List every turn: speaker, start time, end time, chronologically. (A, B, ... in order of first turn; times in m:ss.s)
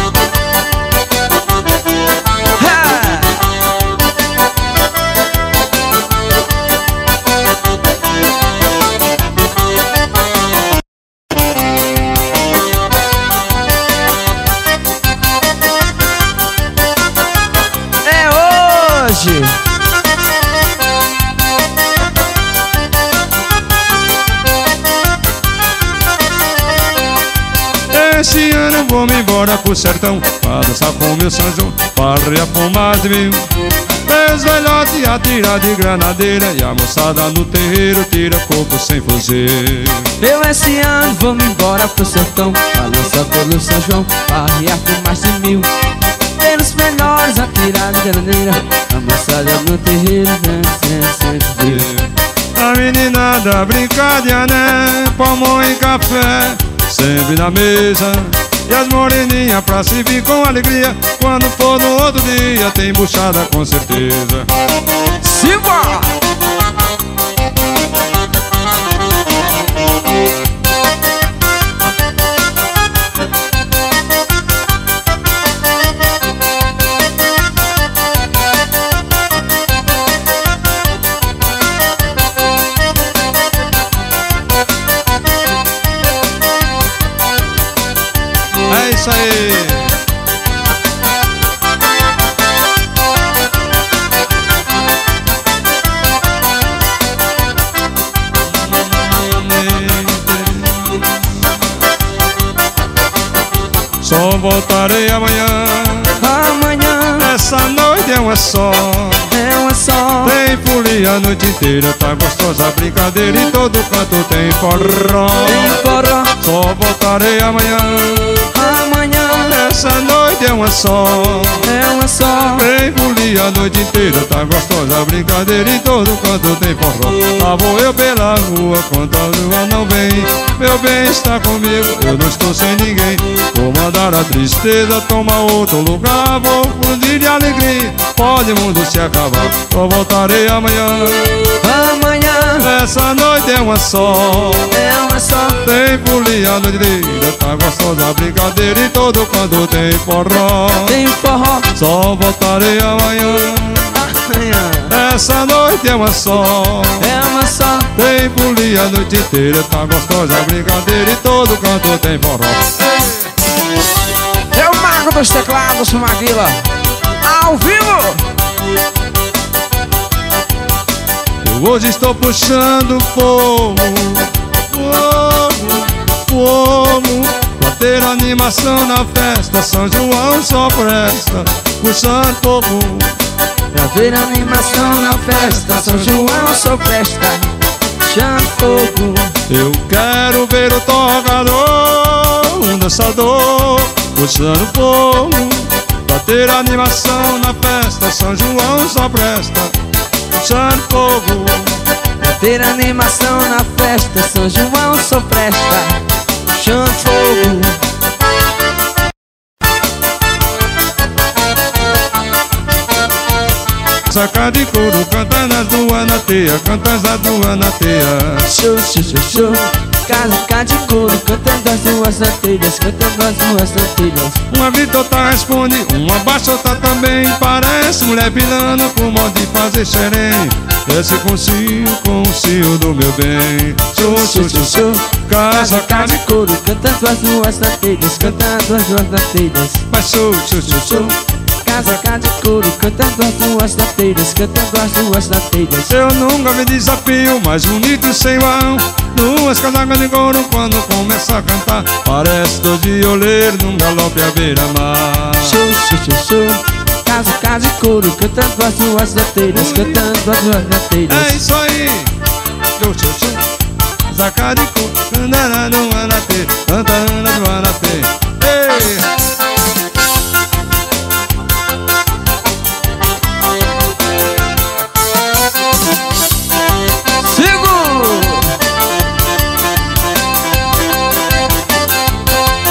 0:02.6-0:03.5 A
0:18.0-0:19.5 A
0:27.9-0:33.5 B
0:34.0-0:40.1 B
0:40.2-0:45.7 A
0:46.4-0:51.9 A
0:51.6-1:04.5 B
1:05.2-1:06.2 A
1:28.7-1:30.0 B
1:38.5-1:41.2 B
1:44.0-1:46.2 B
1:46.2-1:47.3 A
1:47.2-1:49.3 B
1:49.3-1:50.4 A
1:50.2-1:55.8 B
1:55.4-1:56.3 A
1:56.4-1:58.5 B
1:58.5-1:59.5 A
1:59.5-2:01.7 B
2:01.6-2:02.7 A
2:02.5-2:21.4 B
2:21.6-2:22.7 A
2:22.6-2:24.7 B
2:24.7-2:25.6 A
2:25.6-2:31.0 B
2:30.9-2:31.7 A
2:31.8-2:34.0 B
2:33.9-2:34.9 A
2:34.9-2:37.1 B
2:37.0-2:37.9 A
2:38.0-2:42.8 B
2:44.5-2:46.6 A
2:47.2-2:48.2 A
2:51.4-3:03.2 B
3:03.7-3:07.5 A
3:04.9-3:06.6 B
3:08.0-3:09.3 A
3:09.5-3:19.8 B
3:20.3-3:21.8 B
3:22.2-3:26.0 A
3:26.5-3:27.8 A
3:34.1-3:38.5 B
3:38.4-3:44.4 A
3:44.5-3:56.2 B
3:54.0-3:59.8 A
3:59.9-4:01.1 B
4:00.6-4:06.0 A
4:01.8-4:02.0 B
4:05.9-4:15.6 B
4:15.4-4:21.4 A
4:19.5-4:20.1 B
4:21.1-4:22.1 B
4:22.8-4:23.4 B
4:24.1-4:29.1 B
4:37.2-4:38.5 A